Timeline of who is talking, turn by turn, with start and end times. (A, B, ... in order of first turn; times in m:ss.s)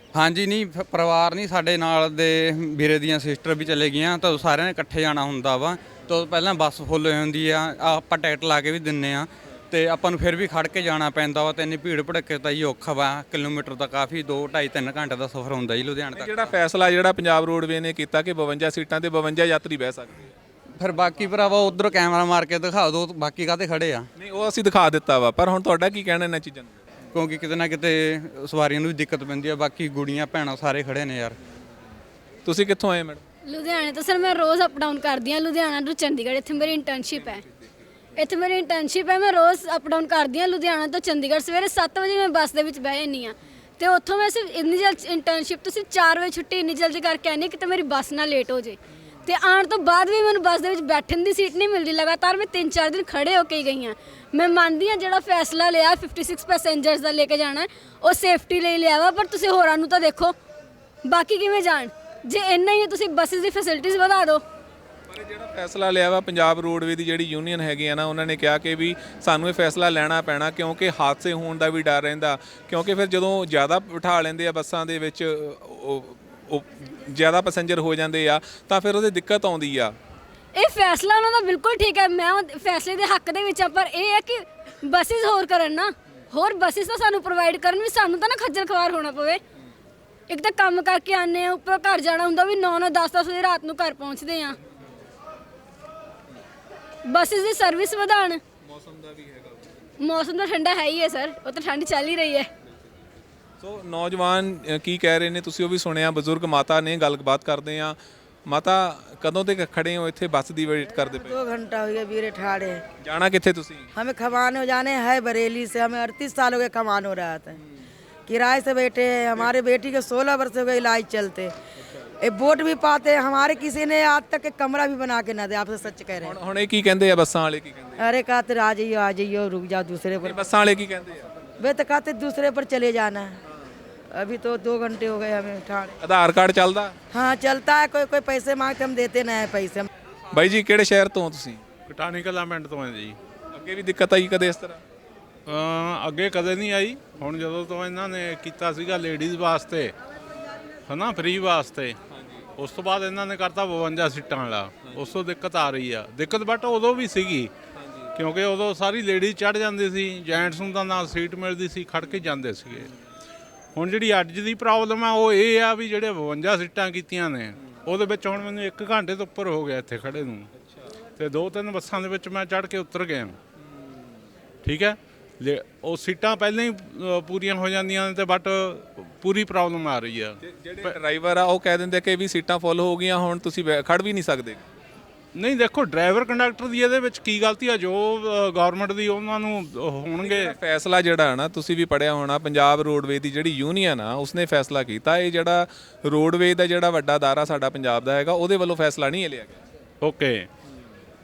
0:00.1-0:16.5 A
0:16.1-0:20.3 B
0:20.8-0:24.1 A
0:24.2-0:26.8 B
0:27.1-0:31.4 A
0:32.4-0:33.2 B
0:33.4-0:37.4 C
0:38.2-1:00.3 C
1:01.0-1:04.4 C
1:05.1-1:20.0 B
1:20.5-1:29.4 C
1:30.3-1:34.6 C
1:37.0-1:38.4 C
1:38.6-1:39.8 B
1:40.0-1:42.5 C
1:43.6-1:51.4 B
1:51.0-1:52.8 D
1:53.0-1:53.9 B
1:53.9-1:57.6 D
1:58.3-2:01.5 D
2:02.2-2:06.4 D
2:06.1-2:08.0 B
2:08.0-2:10.4 D
2:10.2-2:11.3 B
2:11.6-2:13.4 D
2:14.1-2:16.0 D
2:16.0-2:17.0 B
2:17.1-2:19.9 D
2:20.3-2:21.6 B
2:21.9-2:23.2 E
2:23.5-2:24.8 B
2:25.4-2:29.9 E
2:30.9-2:32.0 E
2:32.1-2:32.4 B
2:32.6-2:37.5 E
2:34.9-2:35.1 B
2:37.7-2:38.2 B
2:38.1-2:42.9 E
2:43.7-2:50.5 E
2:50.6-2:50.9 B
2:51.2-2:53.4 E
2:53.7-2:54.0 B
2:54.6-3:00.9 E
3:00.4-3:04.6 B
3:05.3-3:10.5 E
3:10.2-3:19.6 B
3:20.0-3:20.5 E